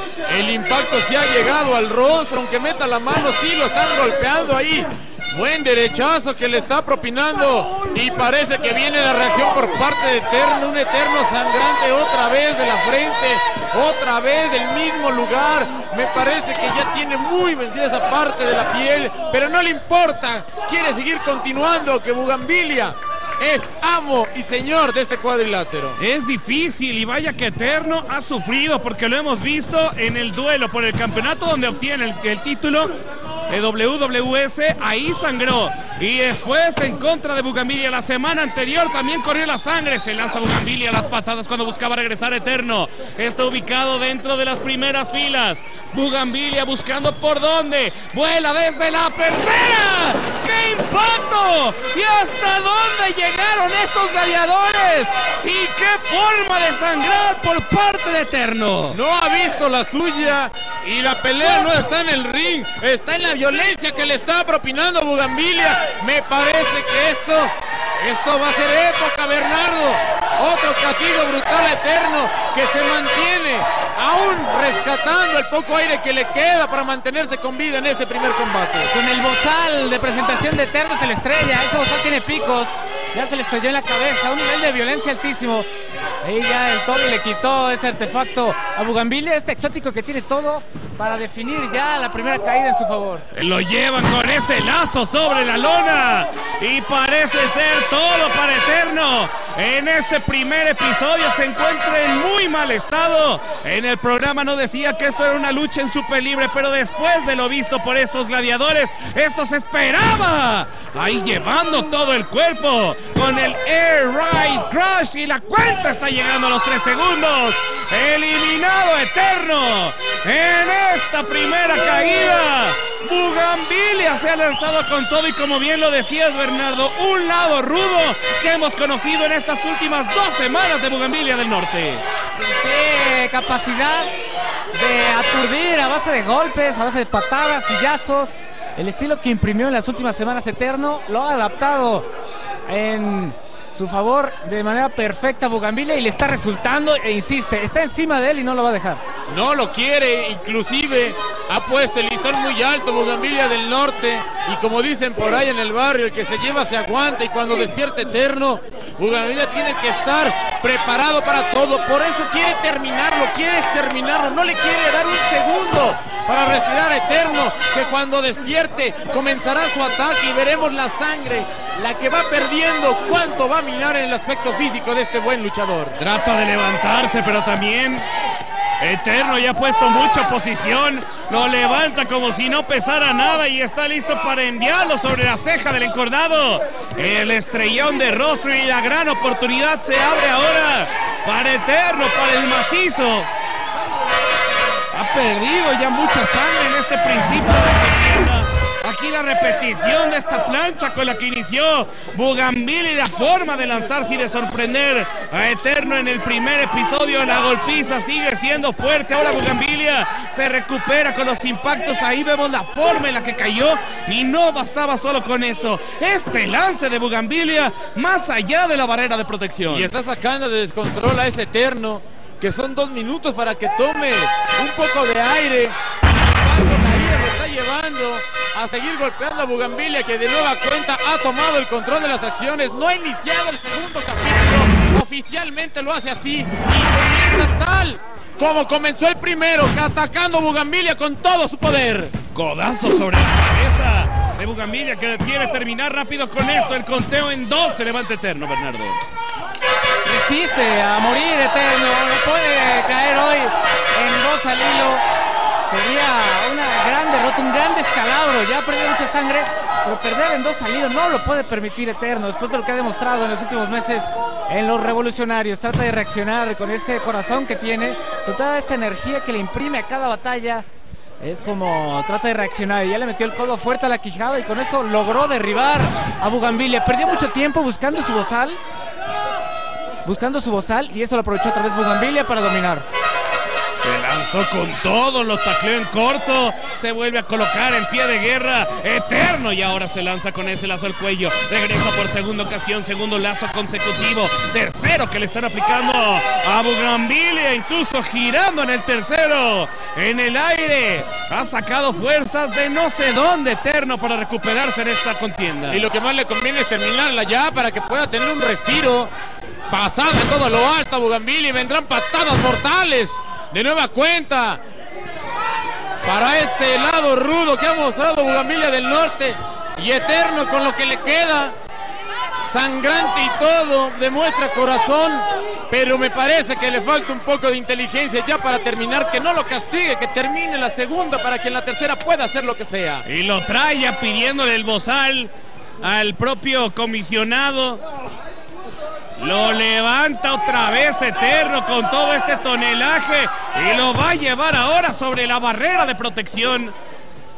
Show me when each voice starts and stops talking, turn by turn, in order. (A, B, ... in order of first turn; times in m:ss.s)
0:00.3-0:26.0 A
0:26.0-0:32.9 B
0:33.5-0:59.0 B
0:58.9-1:18.9 A
1:18.9-1:25.7 C
1:26.2-1:33.3 C
1:33.3-2:12.0 B
2:12.4-2:14.1 C
2:14.7-2:22.1 C
2:22.7-2:29.0 C
2:29.3-2:56.0 A
2:56.0-2:58.1 B
2:58.8-3:13.3 B
3:14.9-3:39.9 B
3:39.7-4:02.2 A
4:02.3-4:09.0 B
4:10.0-4:15.0 C
4:15.6-4:30.7 C
4:31.2-4:38.6 C
4:40.0-4:42.8 C
4:43.8-5:05.8 B
5:05.7-5:09.1 A
5:09.7-5:14.6 A
5:16.0-5:21.6 A
5:22.5-5:33.1 A
5:33.1-5:37.8 B
5:39.2-5:46.8 B